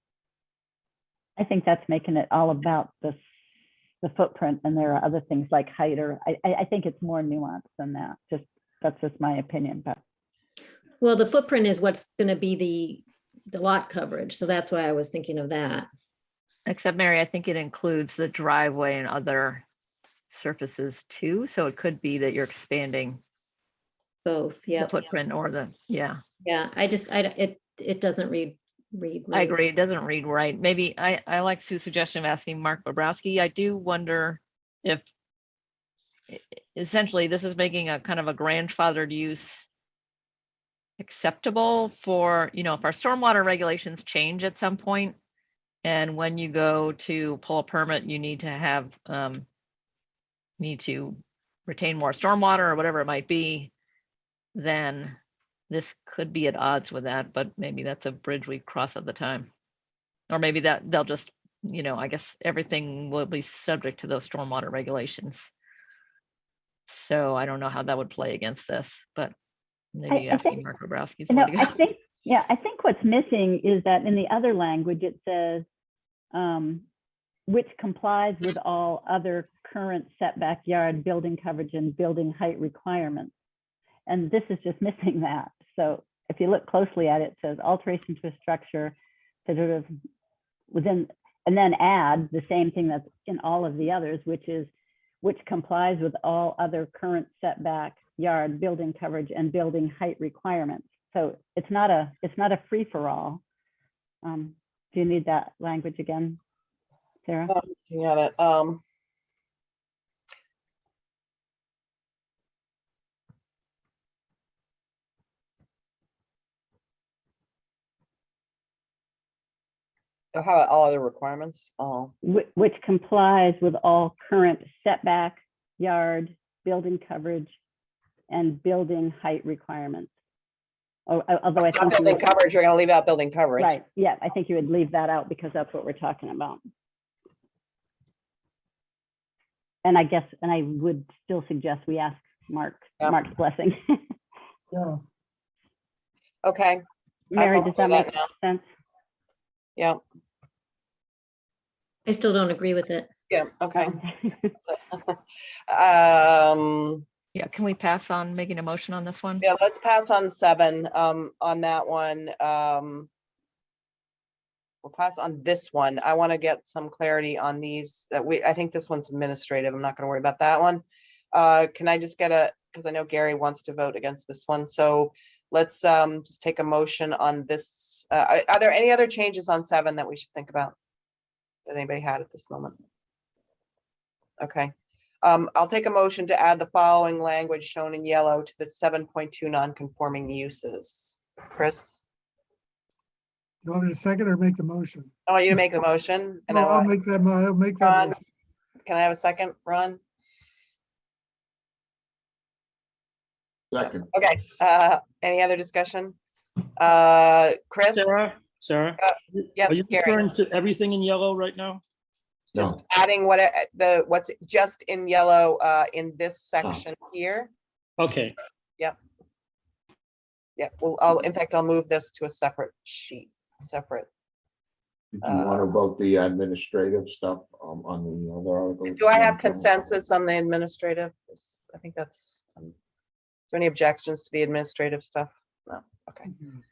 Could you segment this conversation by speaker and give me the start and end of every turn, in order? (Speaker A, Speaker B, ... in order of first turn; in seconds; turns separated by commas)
Speaker A: 1.4-3.2, Speaker A: 4.0-10.0, Speaker B: 11.0-15.9, Speaker C: 16.7-19.6, Speaker C: 20.3-23.2, Speaker B: 24.2-25.1, Speaker C: 24.8-26.2, Speaker B: 26.4-29.6, Speaker C: 29.3-35.1, Speaker C: 36.3-39.6, Speaker C: 41.0-45.2, Speaker C: 45.8-49.5, Speaker C: 50.6-53.7, Speaker C: 54.5-55.2, Speaker C: 55.7-59.5, Speaker C: 60.3-65.5, Speaker C: 66.9-69.3, Speaker C: 69.9-71.8, Speaker A: 70.1-70.6, Speaker A: 71.3-75.7, Speaker A: 76.3-76.8, Speaker A: 77.5-83.3, Speaker A: 84.1-89.9, Speaker A: 90.7-94.7, Speaker A: 95.2-103.4, Speaker A: 104.2-106.4, Speaker A: 107.2-107.5, Speaker D: 107.5-108.8, Speaker D: 120.3-122.1, Speaker A: 122.2-127.5, Speaker A: 128.3-130.1, Speaker A: 131.1-132.3, Speaker D: 131.7-133.7, Speaker A: 133.6-136.6, Speaker A: 139.8-144.0, Speaker E: 144.7-145.0, Speaker D: 146.4-146.8, Speaker A: 147.3-148.7, Speaker D: 147.3-148.3, Speaker B: 152.1-153.1, Speaker D: 153.3-154.0, Speaker D: 154.7-157.0, Speaker C: 157.3-159.5, Speaker D: 159.4-163.1, Speaker D: 164.8-180.8, Speaker D: 181.7-182.8, Speaker D: 184.4-192.0, Speaker E: 193.6-195.1, Speaker D: 195.3-196.9, Speaker E: 196.5-198.2, Speaker D: 197.8-198.2, Speaker D: 198.8-200.0, Speaker F: 203.7-204.1, Speaker D: 204.1-206.2, Speaker D: 206.8-208.2, Speaker G: 207.9-211.8, Speaker D: 209.1-210.3, Speaker D: 212.5-217.5, Speaker F: 212.6-212.8, Speaker G: 218.0-218.4, Speaker D: 220.6-224.1, Speaker F: 225.1-230.0, Speaker D: 225.2-225.7, Speaker D: 228.9-232.7, Speaker D: 233.5-236.3